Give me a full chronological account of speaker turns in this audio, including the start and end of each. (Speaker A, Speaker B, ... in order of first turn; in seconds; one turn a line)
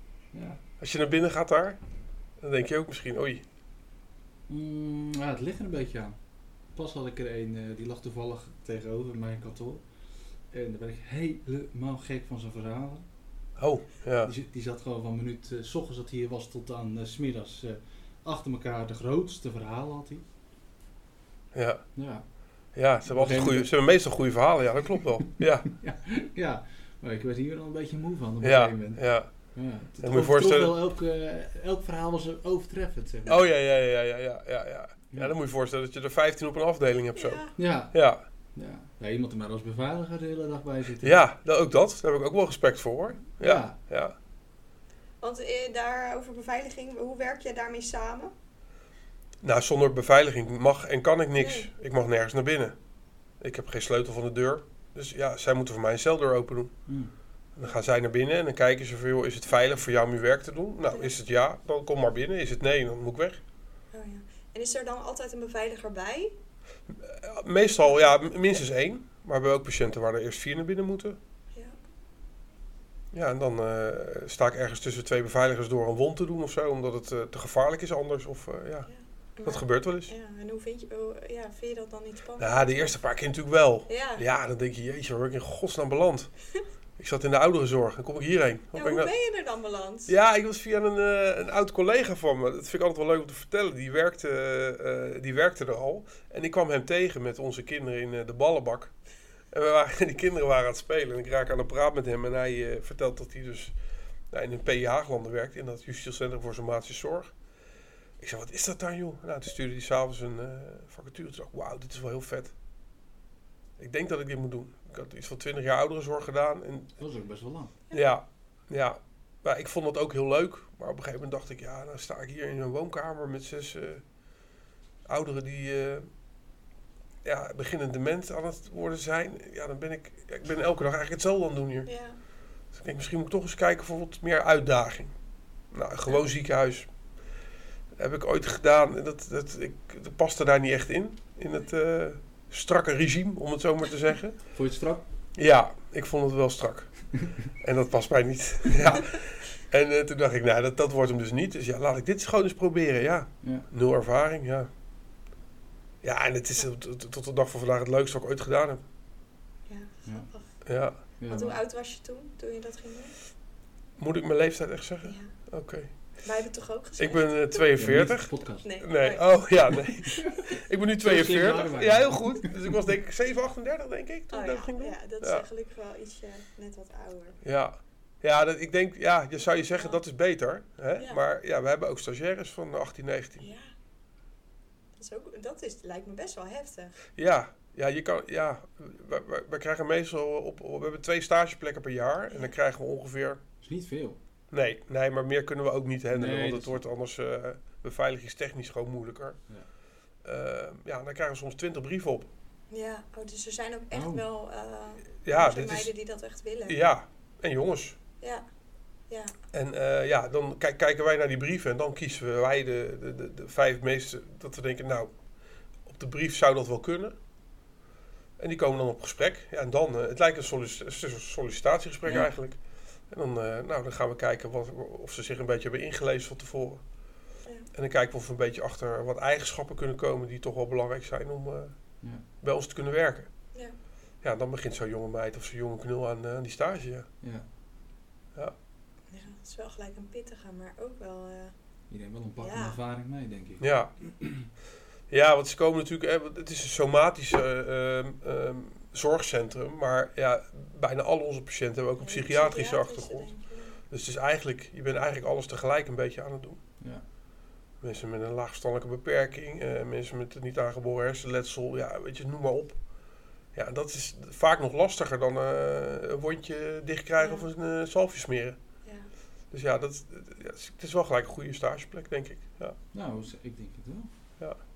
Speaker A: 0.3-0.6
Speaker B: 0.8-1.8
Speaker B: 2.4-3.4
Speaker A: 4.5-6.2
Speaker A: 6.7-9.8
Speaker A: 10.5-13.1
Speaker B: 13.6-14.3
Speaker A: 14.2-20.2
Speaker B: 21.5-21.9
Speaker A: 21.9-22.2
Speaker B: 22.7-25.7
Speaker A: 23.1-23.7
Speaker A: 25.4-33.4
Speaker B: 28.4-30.8
Speaker B: 33.3-38.2
Speaker C: 37.2-37.5
Speaker A: 37.6-38.0
Speaker A: 38.5-41.2
Speaker B: 41.0-44.1
Speaker A: 43.4-43.8
Speaker C: 45.2-48.3
Speaker B: 49.4-52.8
Speaker C: 51.4-51.7
Speaker B: 53.4-56.7
Speaker A: 56.9-57.1
Speaker B: 57.6-63.4
Speaker C: 63.9-66.3
Speaker B: 66.9-71.2
Speaker B: 73.1-78.9
Speaker C: 78.9-83.0
Speaker B: 79.5-80.1
Speaker B: 82.4-86.3
Speaker C: 83.9-84.2
Speaker B: 87.0-89.1
Speaker C: 88.7-90.1
Speaker B: 90.1-98.9
Speaker B: 99.5-103.8
Speaker B: 104.3-107.3
Speaker B: 108.2-112.5
Speaker B: 113.8-117.0
Speaker A: 117.0-117.8
Speaker B: 117.9-124.0
Speaker B: 125.1-126.1
Speaker B: 127.2-131.9
Speaker C: 131.9-132.2
Speaker B: 132.7-135.2
Speaker B: 135.7-136.9
Speaker B: 138.0-144.5
Speaker A: 144.5-145.0
Speaker B: 145.4-154.7
Speaker A: 153.4-153.7
Speaker B: 156.0-158.8
Speaker C: 159.7-160.5
Speaker B: 160.7-161.0
Speaker A: 161.2-161.6
Speaker C: 161.3-163.2
Speaker B: 164.0-165.9
Speaker C: 165.0-165.3
Speaker C: 166.2-167.7
Speaker B: 167.0-175.4
Speaker A: 167.8-168.7
Speaker C: 168.6-170.6
Speaker A: 171.0-172.8
Speaker C: 174.3-177.4
Speaker B: 177.4-183.5
Speaker C: 179.4-180.0
Speaker C: 183.4-183.7
Speaker C: 185.0-187.0
Speaker B: 187.2-193.4
Speaker A: 193.6-194.2
Speaker B: 194.5-199.4
Speaker A: 196.1-196.8
Speaker B: 200.2-202.3
Speaker C: 202.7-206.8
Speaker A: 203.9-204.2
Speaker B: 205.2-205.9
Speaker B: 206.7-208.0
Speaker C: 209.1-209.4
Speaker B: 209.5-215.1
Speaker B: 215.9-217.2
Speaker B: 218.4-222.6
Speaker A: 222.1-222.4
Speaker B: 223.1-226.8
Speaker B: 227.7-231.8
Speaker B: 232.4-233.3
Speaker B: 234.2-237.1
Speaker C: 239.1-241.5
Speaker A: 241.9-244.5
Speaker C: 242.4-242.8
Speaker B: 243.6-243.9
Speaker B: 245.1-253.3
Speaker C: 252.0-253.8
Speaker B: 253.9-256.6
Speaker B: 257.8-262.8
Speaker B: 263.5-268.6
Speaker C: 267.2-267.5
Speaker B: 269.5-272.8
Speaker A: 272.9-274.1